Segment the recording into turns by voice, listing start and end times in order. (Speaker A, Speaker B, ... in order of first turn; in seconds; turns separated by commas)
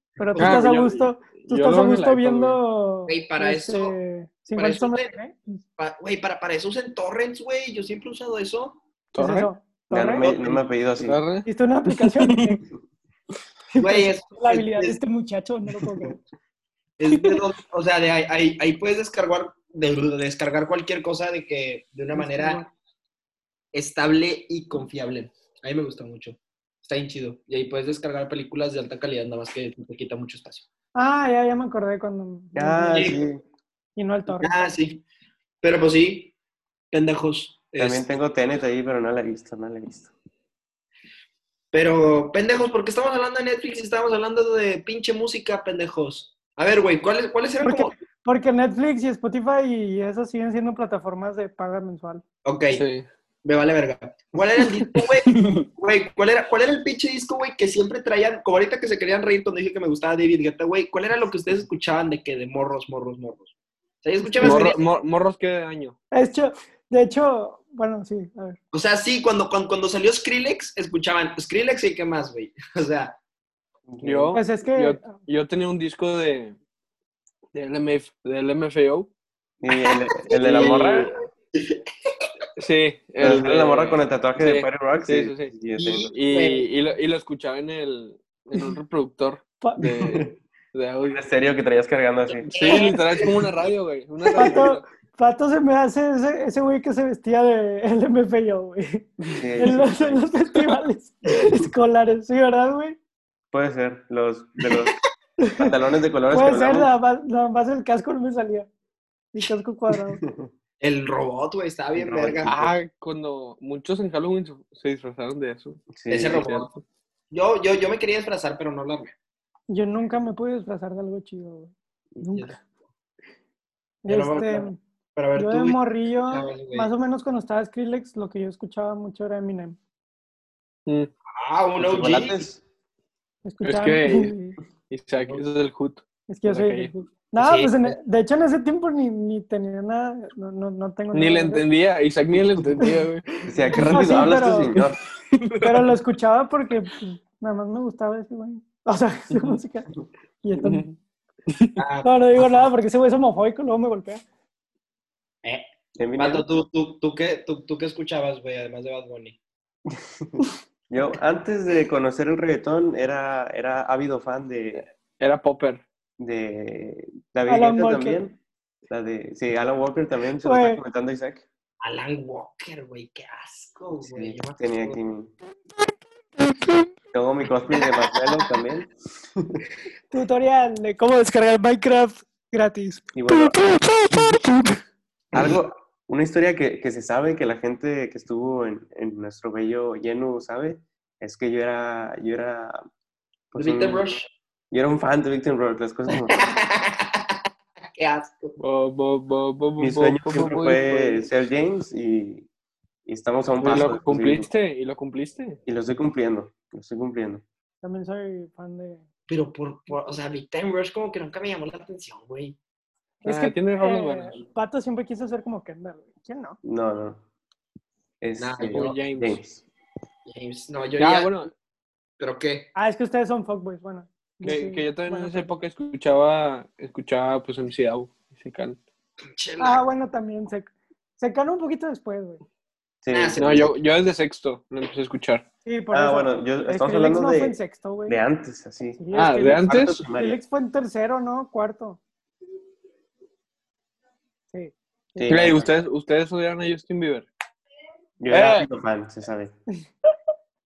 Speaker A: 0.2-5.6, Speaker B: 0.2-0.7, Speaker C: 0.4-2.6, Speaker B: 3.1-4.0, Speaker B: 4.5-5.2, Speaker B: 5.8-8.8, Speaker C: 9.1-9.5, Speaker A: 9.2-10.3, Speaker D: 9.9-11.2, Speaker C: 10.4-12.3, Speaker A: 11.4-12.6, Speaker A: 13.7-16.2, Speaker B: 13.8-15.0, Speaker B: 17.0-22.6, Speaker A: 22.1-22.7, Speaker B: 23.7-30.7, Speaker A: 30.9-33.1, Speaker D: 32.5-33.4, Speaker B: 32.9-33.2, Speaker A: 34.0-34.7, Speaker B: 34.4-35.0, Speaker B: 35.6-36.3, Speaker B: 36.9-38.1, Speaker D: 37.8-40.1, Speaker B: 41.7-47.9, Speaker A: 47.6-52.2, Speaker B: 52.4-52.8, Speaker C: 52.7-53.0, Speaker B: 53.4-64.8, Speaker C: 55.0-55.6, Speaker A: 64.3-64.7, Speaker C: 64.4-66.0, Speaker A: 66.1-68.6, Speaker B: 68.7-73.2, Speaker D: 73.9-74.4, Speaker C: 74.0-76.5, Speaker A: 74.3-75.1, Speaker C: 77.5-79.1, Speaker D: 79.6-81.1, Speaker B: 79.7-82.1, Speaker C: 80.3-81.1, Speaker C: 82.6-85.5, Speaker D: 83.2-86.1, Speaker B: 85.8-86.7, Speaker C: 86.0-91.2, Speaker D: 89.9-90.3, Speaker D: 91.0-92.5, Speaker B: 92.3-93.3, Speaker C: 92.5-94.8, Speaker A: 94.4-103.0, Speaker D: 99.3-100.3, Speaker D: 103.5-105.0, Speaker A: 105.4-105.7, Speaker D: 105.5-106.9, Speaker A: 106.3-108.7, Speaker A: 109.3-110.2, Speaker D: 110.2-110.5, Speaker B: 110.8-112.6, Speaker D: 111.9-112.7, Speaker C: 112.4-116.8, Speaker D: 115.9-116.4, Speaker B: 116.1-116.7, Speaker B: 117.3-119.1, Speaker A: 119.7-122.6, Speaker A: 124.0-124.8, Speaker B: 124.1-126.9, Speaker A: 125.3-129.8, Speaker B: 131.4-132.4, Speaker D: 131.8-132.6, Speaker A: 133.4-134.6, Speaker C: 133.6-134.3, Speaker C: 134.9-136.9, Speaker A: 136.3-141.6, Speaker B: 137.4-137.9, Speaker C: 141.1-143.8, Speaker D: 143.4-145.0, Speaker A: 143.8-144.8, Speaker C: 145.3-145.9, Speaker A: 145.6-149.9, Speaker A: 150.4-150.9, Speaker C: 150.6-150.9, Speaker C: 151.5-151.8, Speaker B: 151.8-152.4, Speaker A: 152.0-154.2, Speaker D: 155.9-156.5, Speaker B: 156.2-159.4, Speaker D: 159.9-160.4, Speaker D: 160.9-164.8, Speaker C: 165.2-165.8, Speaker D: 166.2-168.4, Speaker A: 167.5-168.2, Speaker D: 168.9-171.4, Speaker A: 170.4-170.8, Speaker B: 171.8-175.0, Speaker D: 174.0-175.3, Speaker D: 177.1-179.6, Speaker A: 180.1-184.4, Speaker D: 183.1-183.6, Speaker D: 185.3-192.8, Speaker D: 193.5-194.2, Speaker B: 193.5-194.3, Speaker D: 194.7-196.4, Speaker B: 196.2-197.4, Speaker B: 197.9-198.6, Speaker C: 198.6-201.3, Speaker D: 199.8-202.5, Speaker D: 203.1-204.5, Speaker C: 203.6-205.6, Speaker D: 205.7-207.4, Speaker A: 207.8-209.0, Speaker B: 209.3-212.6, Speaker A: 213.2-216.6, Speaker C: 213.2-214.4, Speaker D: 216.6-217.2, Speaker D: 218.2-219.6, Speaker B: 218.4-218.9, Speaker C: 218.7-219.4, Speaker B: 220.2-221.4, Speaker C: 221.0-221.5, Speaker B: 222.2-222.7, Speaker A: 222.8-225.5, Speaker C: 224.4-228.8, Speaker B: 229.3-229.9, Speaker A: 229.6-232.4, Speaker D: 233.0-233.7, Speaker B: 233.1-233.7, Speaker C: 233.4-235.4, Speaker A: 235.6-238.2, Speaker D: 235.9-240.4, Speaker A: 239.0-242.0, Speaker C: 239.1-240.0, Speaker A: 244.5-245.5, Speaker D: 245.2-245.7, Speaker C: 245.3-247.3, Speaker D: 248.2-249.5, Speaker C: 248.3-248.7